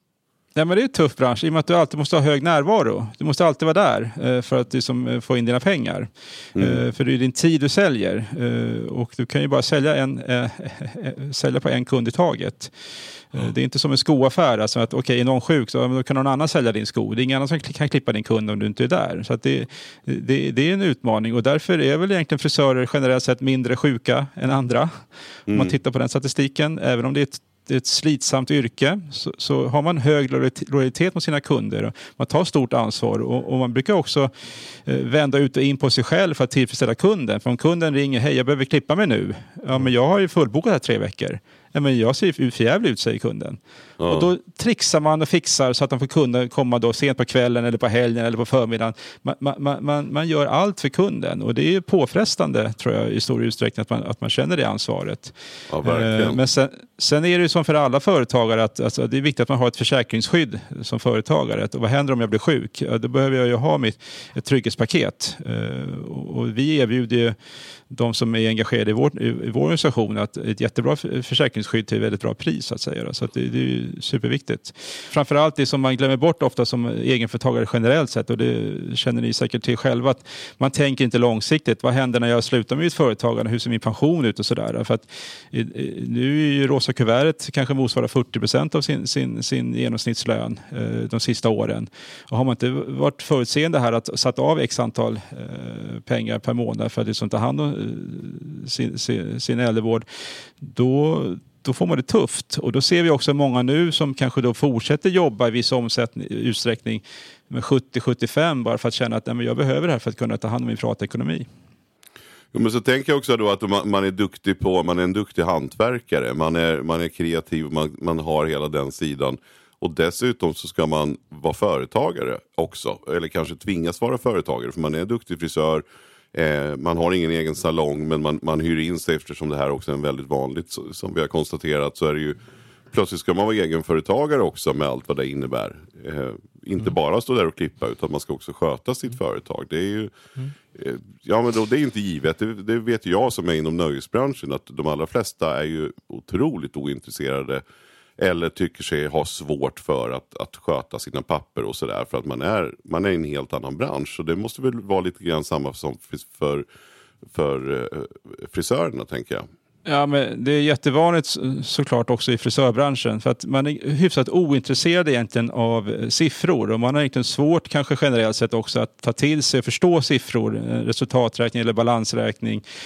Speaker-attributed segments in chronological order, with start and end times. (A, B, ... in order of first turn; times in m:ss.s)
0:00.6-0:12.7 A
0:06.6-0:06.8 B
0:13.3-0:24.9 A
0:25.5-0:34.3 A
0:25.5-0:25.7 B
0:34.8-1:07.3 A
0:44.0-0:44.3 B
0:55.7-0:56.4 B
1:07.9-1:40.0 A
1:40.6-1:51.4 A
1:52.5-2:05.8 B
2:06.3-2:12.4 B
2:12.9-2:20.1 B
2:20.7-2:27.6 B
2:28.2-2:36.6 B
2:37.3-2:39.4 B
2:39.8-2:52.6 A